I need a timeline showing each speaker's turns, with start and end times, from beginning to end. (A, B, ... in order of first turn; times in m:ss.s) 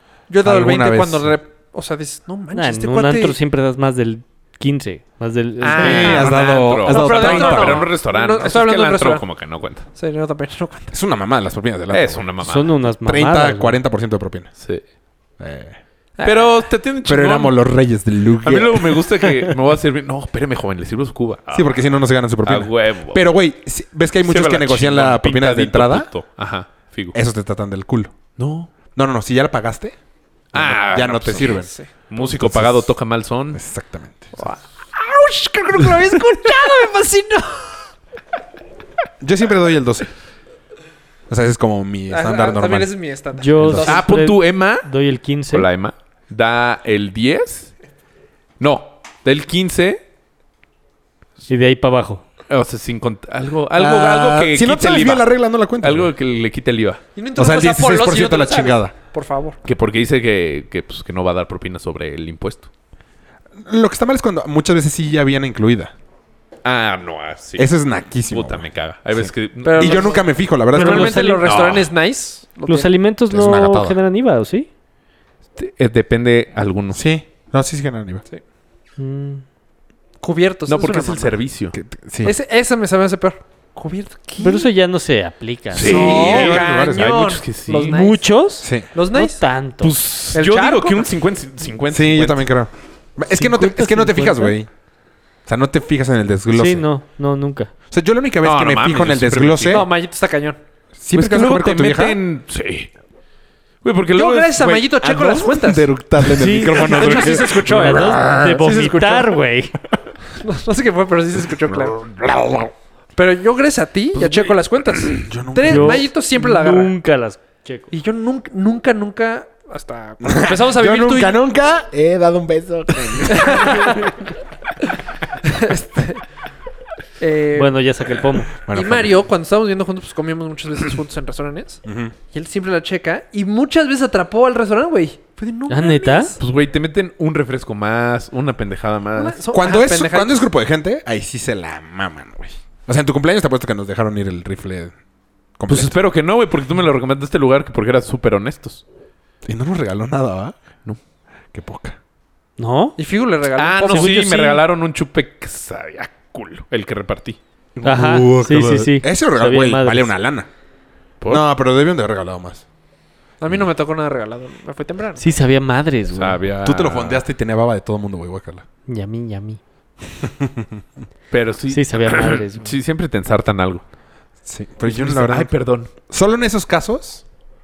0:00.3-0:03.4 A
0:00.4-0:01.4 B
0:02.5-0:06.2 C
0:05.6-0:09.8 D
0:05.7-0:09.2 A
0:05.8-0:07.9 B
0:09.9-0:10.9 A
0:10.9-0:12.2 B
0:11.9-0:12.7 D
0:12.4-0:13.8 C
0:13.0-0:14.5 B
0:15.4-0:15.8 B
0:16.2-0:16.6 A
0:16.2-0:17.6 D
0:17.0-0:19.5 B
0:18.4-0:21.8 D
0:21.5-0:26.1 B
0:22.4-0:23.2 D
0:24.2-0:27.2 D
0:27.1-0:28.2 B
0:28.4-0:28.7 D
0:28.9-0:30.0 B
0:30.5-0:31.6 D
0:30.5-0:32.9 B
0:31.3-0:31.9 A
0:32.1-0:33.6 D
0:33.5-0:34.3 B
0:34.4-0:37.9 A
0:39.2-0:40.1 B
0:41.3-0:42.9 B
0:42.1-0:44.1 A
0:43.4-0:45.7 C
0:43.6-0:43.9 B
0:43.7-0:44.9 D
0:45.5-0:47.7 D
0:48.6-0:50.0 D
0:51.5-0:52.2 C
0:52.5-0:57.0 D
0:53.7-0:56.1 B
0:57.2-0:59.6 A
0:57.4-0:58.9 B
0:59.6-1:02.7 D
1:03.6-1:05.9 B
1:06.6-1:10.2 D
1:07.6-1:11.3 B
1:09.6-1:12.9 A
1:10.7-1:11.5 C
1:11.4-1:11.9 D
1:12.7-1:14.7 C
1:13.3-1:14.0 B
1:15.6-1:17.0 D
1:16.9-1:18.2 B
1:19.0-1:19.4 C
1:20.2-1:21.4 A
1:20.7-1:21.8 D
1:21.7-1:22.3 B
1:22.2-1:24.7 A
1:24.4-1:26.1 C
1:25.7-1:28.0 D
1:25.8-1:27.2 B
1:25.8-1:28.2 A
1:27.7-1:29.9 C
1:28.9-1:29.4 A
1:29.8-1:32.4 D
1:30.3-1:31.1 A
1:31.9-1:34.7 B
1:33.3-1:34.6 C
1:35.4-1:36.9 B
1:36.5-1:37.7 C
1:37.9-1:39.9 B
1:38.4-1:39.9 D
1:39.7-1:40.6 A
1:41.0-1:42.2 B
1:41.1-1:42.9 D
1:43.8-1:45.3 D
1:44.1-1:45.9 A
1:44.9-1:48.8 B
1:46.3-1:49.7 C
1:46.6-1:49.3 A
1:50.4-1:52.0 A
1:51.8-1:52.7 B
1:53.2-1:56.9 A
1:54.2-1:54.5 D
1:55.1-1:56.1 B
1:55.6-1:57.9 C
1:57.9-2:01.4 A
2:00.2-2:04.1 B
2:03.2-2:04.2 A
2:05.4-2:06.2 A
2:07.2-2:07.7 A
2:07.5-2:08.5 C
2:08.6-2:09.2 B
2:08.7-2:16.4 A
2:11.8-2:12.1 B
2:15.7-2:16.4 C
2:16.4-2:19.4 D
2:19.2-2:20.4 A
2:19.5-2:24.9 B
2:25.6-2:25.9 B
2:25.7-2:28.8 D
2:29.4-2:30.6 B
2:31.5-2:32.0 B
2:32.6-2:33.0 C
2:33.0-2:34.3 A
2:33.5-2:37.4 D
2:33.9-2:34.6 C
2:37.8-2:40.5 B
2:37.8-2:40.1 C
2:41.3-2:42.6 B
2:43.4-2:45.2 A
2:45.2-2:46.4 C
2:46.2-2:47.2 D
2:46.6-2:48.6 B
2:48.9-2:49.6 C
2:50.2-2:50.8 B
2:51.3-2:53.8 D
2:51.7-2:52.7 C
2:54.4-2:55.5 B
2:54.8-2:55.9 D
2:56.1-2:57.2 B